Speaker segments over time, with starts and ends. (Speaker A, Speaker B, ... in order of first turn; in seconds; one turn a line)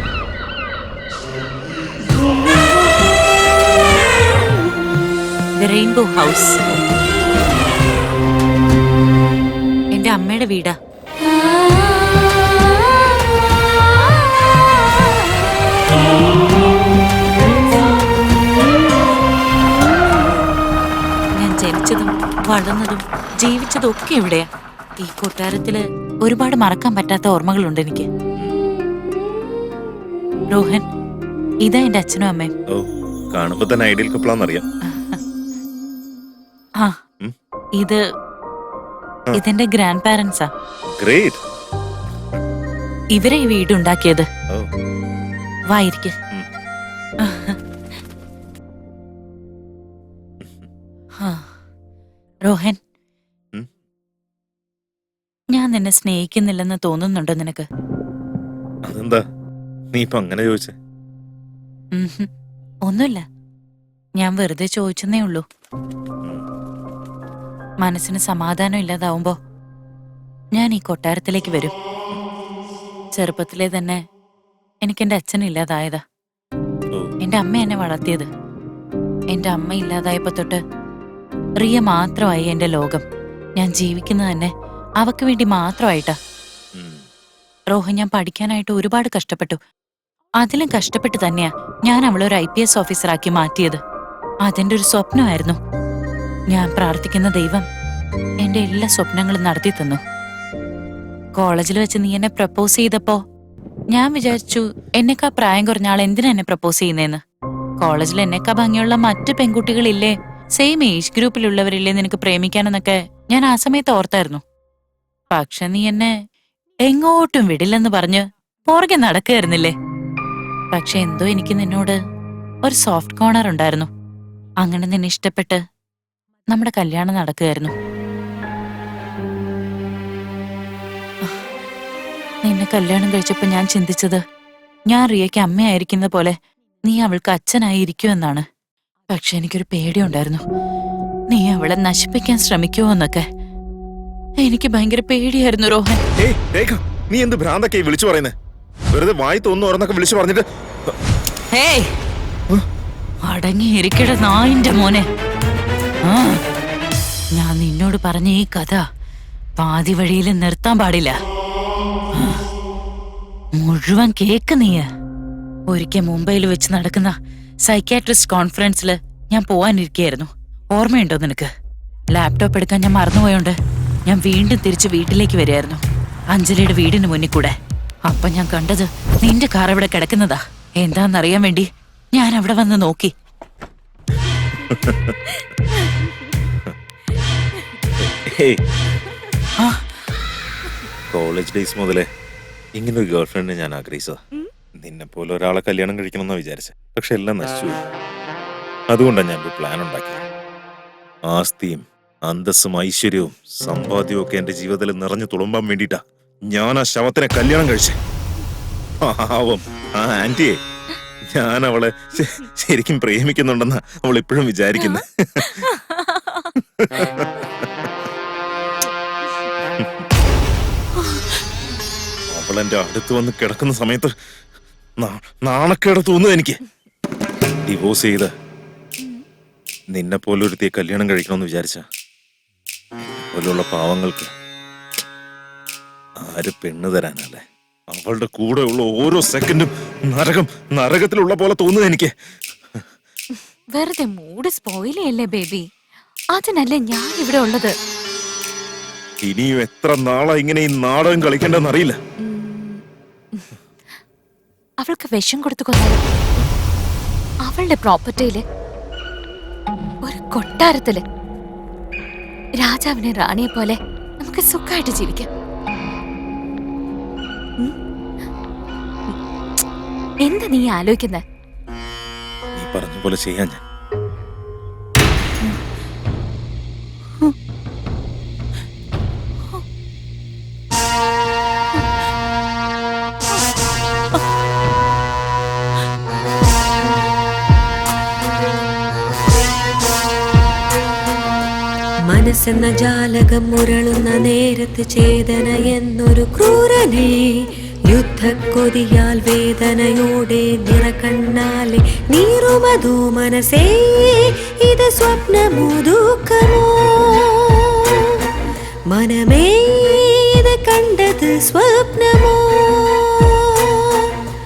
Speaker A: 5.6-6.7
Speaker A: 9.9-10.7
Speaker A: 21.4-24.5
Speaker A: 25.0-28.1
Speaker A: 30.5-30.8
Speaker A: 31.6-32.5
Speaker B: 32.7-34.6
Speaker A: 34.8-35.2
Speaker A: 39.3-40.5
Speaker B: 40.9-41.4
Speaker A: 43.1-44.3
Speaker A: 45.7-46.1
Speaker A: 47.2-47.6
Speaker B: 50.4-50.7
Speaker A: 51.2-51.5
Speaker A: 52.4-52.8
Speaker A: 55.5-57.7
Speaker B: 58.9-59.2
Speaker B: 59.9-60.8
Speaker A: 61.9-62.3
Speaker A: 62.9-63.2
Speaker A: 64.2-65.4
Speaker A: 67.8-69.3
Speaker A: 70.5-71.7
Speaker A: 73.1-74.0
Speaker A: 74.8-76.0
Speaker A: 77.2-78.3
Speaker A: 79.3-80.6
Speaker A: 81.6-83.0
Speaker A: 83.6-86.2
Speaker B: 86.8-87.0
Speaker A: 87.7-89.6
Speaker A: 90.4-93.8
Speaker A: 94.4-95.6
Speaker A: 96.5-97.6
Speaker A: 98.4-100.0
Speaker A: 101.3-103.2
Speaker A: 103.9-107.2
Speaker B: 104.3-104.6
Speaker A: 107.8-114.4
Speaker A: 115.3-116.1
Speaker A: 116.8-119.7
Speaker A: 120.7-122.0
Speaker A: 122.6-123.9
Speaker A: 124.6-125.6
Speaker A: 126.5-127.7
Speaker A: 132.4-134.2
Speaker A: 134.9-138.4
Speaker A: 139.1-140.4
Speaker A: 141.3-143.2
Speaker A: 144.4-146.0
Speaker B: 146.2-148.3
Speaker B: 148.9-150.9
Speaker A: 151.5-151.9
Speaker A: 153.2-155.1
Speaker A: 156.0-156.4
Speaker A: 157.3-158.8
Speaker A: 159.6-161.2
Speaker A: 162.1-162.4
Speaker A: 163.6-164.9
Speaker A: 165.7-171.5
Speaker A: 172.1-173.5
Speaker A: 174.1-175.8
Speaker A: 176.3-177.5
Speaker A: 178.1-183.1
Speaker B: 184.6-185.3
Speaker B: 188.0-188.6
Speaker A: 189.6-189.9
Speaker B: 191.1-192.1
Speaker B: 192.8-194.2
Speaker B: 194.8-197.8
Speaker B: 198.9-200.3
Speaker B: 201.3-208.0
Speaker B: 209.0-210.6
Speaker B: 211.3-215.8
Speaker B: 216.5-217.7
Speaker B: 219.8-220.0
Speaker B: 222.3-224.1
Speaker B: 225.0-226.6
Speaker B: 227.7-228.3
Speaker B: 229.9-231.8
Speaker B: 233.3-234.3
Speaker B: 236.2-242.1
Speaker C: 243.7-245.7
Speaker C: 246.3-247.7
Speaker B: 249.2-252.0
Speaker C: 252.2-253.5
Speaker C: 254.8-256.0
Speaker C: 257.4-258.4
Speaker C: 260.0-261.0
Speaker C: 262.6-265.3
Speaker C: 270.2-271.2
Speaker B: 272.5-273.6
Speaker D: 292.1-297.3
Speaker D: 297.9-308.2
Speaker D: 308.9-314.1